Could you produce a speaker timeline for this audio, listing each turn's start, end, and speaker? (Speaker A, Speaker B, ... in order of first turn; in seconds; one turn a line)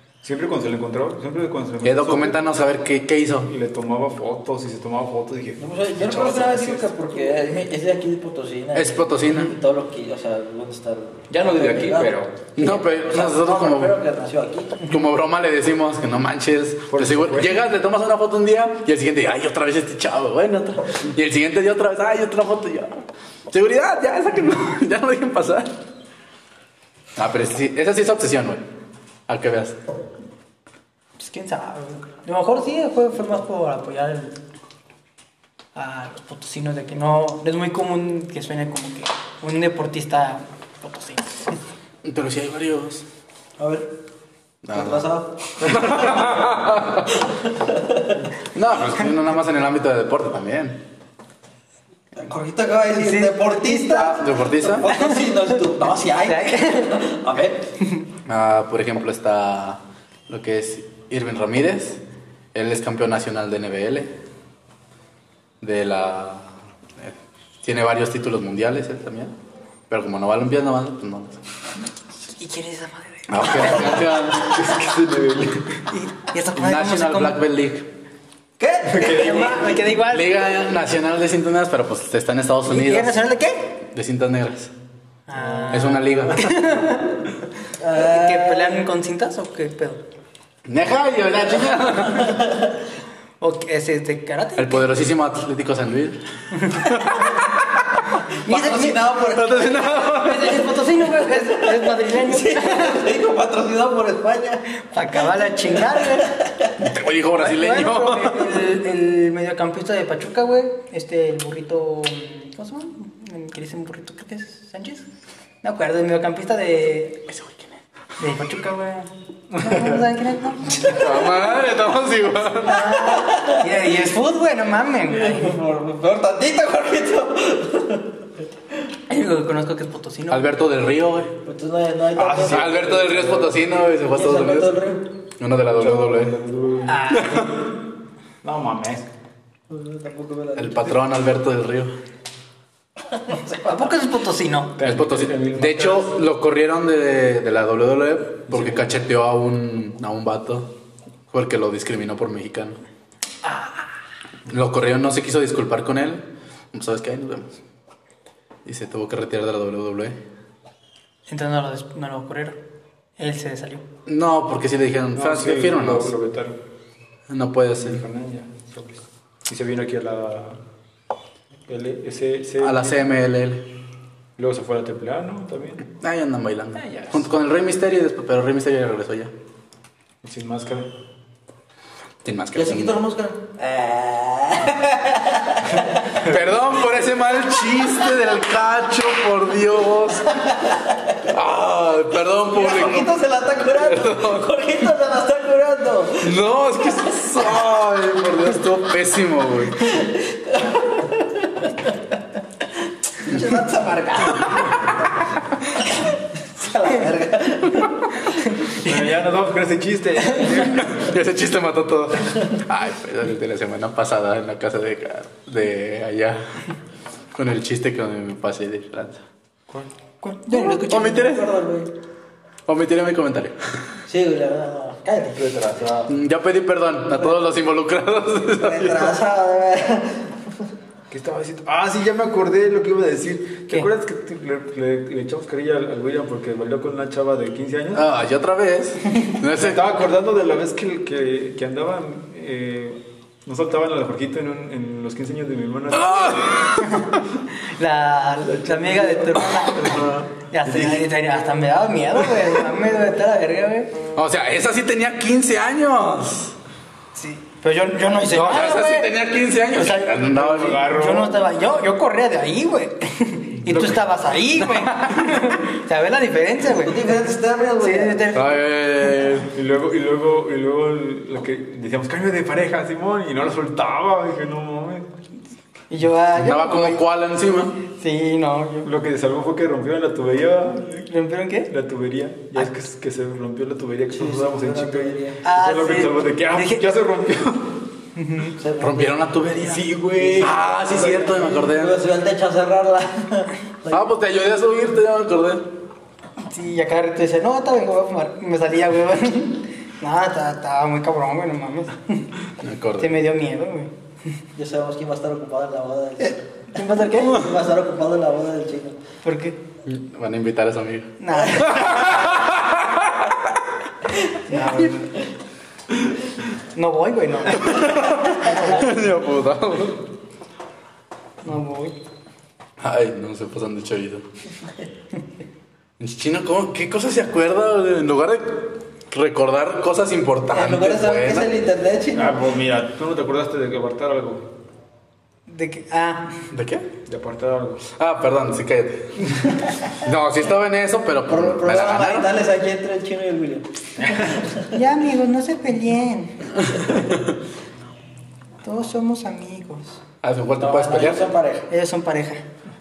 Speaker A: 0.2-2.4
Speaker B: 1.8-3.5
Speaker A: 3.5-6.9
Speaker C: 5.6-14.9
Speaker B: 8.7-9.5
Speaker A: 11.3-12.3
Speaker B: 12.6-14.0
Speaker B: 14.8-25.7
Speaker A: 16.9-17.6
Speaker B: 27.2-28.6
Speaker B: 29.3-29.8
Speaker D: 31.2-34.4
Speaker D: 35.8-41.5
Speaker B: 42.0-43.0
Speaker C: 43.6-43.9
Speaker B: 44.6-45.1
Speaker C: 44.7-46.6
Speaker B: 45.6-47.3
Speaker C: 47.3-48.2
Speaker B: 48.5-50.8
Speaker C: 52.1-57.7
Speaker D: 52.9-54.2
Speaker B: 54.1-54.9
Speaker D: 54.9-55.3
Speaker D: 56.2-57.0
Speaker B: 58.3-62.0
Speaker B: 62.5-64.1
Speaker B: 65.6-69.3
Speaker B: 69.9-71.4
Speaker D: 72.4-74.1
Speaker B: 73.3-74.6
Speaker A: 74.3-75.8
Speaker D: 75.9-77.4
Speaker B: 76.5-77.9
Speaker C: 78.6-79.7
Speaker A: 78.8-79.4
Speaker D: 79.0-80.4
Speaker B: 80.0-83.2
Speaker D: 82.7-83.7
Speaker B: 83.9-84.7
Speaker D: 85.3-87.3
Speaker A: 85.4-86.4
Speaker B: 85.7-86.7
Speaker C: 87.8-88.8
Speaker D: 87.9-90.0
Speaker B: 90.7-92.4
Speaker C: 92.1-92.7
Speaker D: 93.4-94.9
Speaker B: 94.6-97.2
Speaker D: 96.6-97.2
Speaker D: 98.3-99.0
Speaker C: 98.5-104.7
Speaker B: 99.3-100.6
Speaker D: 100.1-103.0
Speaker D: 104.8-106.3
Speaker C: 105.7-106.8
Speaker B: 106.8-108.6
Speaker D: 107.4-115.1
Speaker D: 115.6-117.2
Speaker B: 117.3-117.8
Speaker D: 118.2-121.3
Speaker B: 120.7-122.9
Speaker D: 122.6-125.6
Speaker C: 122.9-123.7
Speaker C: 125.1-128.2
Speaker D: 129.1-130.5
Speaker B: 130.3-131.3
Speaker C: 131.4-133.4
Speaker A: 132.2-133.5
Speaker B: 132.3-134.8
Speaker C: 134.1-135.1
Speaker B: 135.4-136.4
Speaker A: 135.7-137.1
Speaker D: 136.9-137.6
Speaker B: 137.2-137.5
Speaker A: 138.4-139.1
Speaker C: 139.7-140.9
Speaker B: 140.6-141.9
Speaker C: 143.1-144.0
Speaker D: 143.7-144.7
Speaker A: 144.8-146.1
Speaker B: 144.8-150.7
Speaker A: 148.5-148.9
Speaker B: 151.3-152.8
Speaker B: 154.5-157.6
Speaker B: 158.7-160.2
Speaker D: 161.3-162.6
Speaker D: 163.2-163.8
Speaker B: 164.1-166.1
Speaker A: 165.2-166.6
Speaker B: 167.3-168.0
Speaker A: 167.8-170.6
Speaker A: 171.7-173.0
Speaker B: 172.6-173.7
Speaker A: 174.4-175.8
Speaker B: 176.0-179.3
Speaker A: 176.8-177.2
Speaker A: 180.2-180.9
Speaker B: 182.2-183.0
Speaker C: 182.5-186.2
Speaker B: 186.2-190.3
Speaker C: 190.3-191.2
Speaker B: 191.3-193.1
Speaker C: 192.5-196.4
Speaker B: 193.7-194.5
Speaker B: 196.2-199.9
Speaker C: 199.8-202.0
Speaker C: 203.2-208.4
Speaker A: 208.7-211.2
Speaker B: 210.9-216.6
Speaker B: 217.3-219.2
Speaker D: 220.2-220.5
Speaker C: 220.5-221.9
Speaker B: 220.5-221.5
Speaker B: 222.7-223.6
Speaker C: 224.1-225.4
Speaker A: 225.3-226.1
Speaker B: 226.1-229.2
Speaker C: 228.5-230.7
Speaker A: 231.1-238.1
Speaker B: 237.9-239.9
Speaker A: 239.4-246.8
Speaker B: 245.9-247.1
Speaker D: 246.8-253.9
Speaker A: 248.4-250.1
Speaker B: 249.8-250.2
Speaker A: 250.7-251.1
Speaker B: 254.2-256.6
Speaker D: 257.1-259.2
Speaker B: 258.2-260.9
Speaker D: 259.7-267.2
Speaker A: 260.3-261.4
Speaker A: 263.7-264.0
Speaker B: 264.6-265.4
Speaker C: 266.6-268.4
Speaker D: 267.8-268.6
Speaker B: 268.3-269.5
Speaker A: 269.5-275.1
Speaker D: 275.9-277.0
Speaker B: 276.4-277.8
Speaker D: 277.9-278.9
Speaker A: 278.8-281.1
Speaker D: 281.1-281.7
Speaker A: 281.7-287.9
Speaker C: 284.1-285.4
Speaker D: 285.4-286.9
Speaker D: 288.2-288.6
Speaker C: 288.6-294.0
Speaker B: 288.8-289.9
Speaker A: 289.6-290.5
Speaker B: 290.4-291.9
Speaker B: 293.9-295.7
Speaker D: 296.4-302.3
Speaker B: 302.6-303.2
Speaker D: 303.0-304.4
Speaker C: 304.6-309.0
Speaker D: 306.7-307.4
Speaker D: 309.2-309.6
Speaker B: 309.9-313.4
Speaker D: 311.2-312.0
Speaker D: 314.4-315.2
Speaker C: 314.5-314.9
Speaker D: 316.7-318.9
Speaker B: 317.6-320.1
Speaker D: 321.4-321.9
Speaker B: 322.8-324.2
Speaker B: 326.0-331.5
Speaker C: 330.5-332.4
Speaker A: 332.1-334.5
Speaker D: 335.5-336.4
Speaker B: 336.5-336.9
Speaker A: 337.1-337.9
Speaker B: 337.9-342.3
Speaker C: 341.3-344.8
Speaker D: 344.7-346.5
Speaker D: 348.6-350.0
Speaker B: 350.2-351.3
Speaker C: 350.6-351.7
Speaker D: 351.7-352.4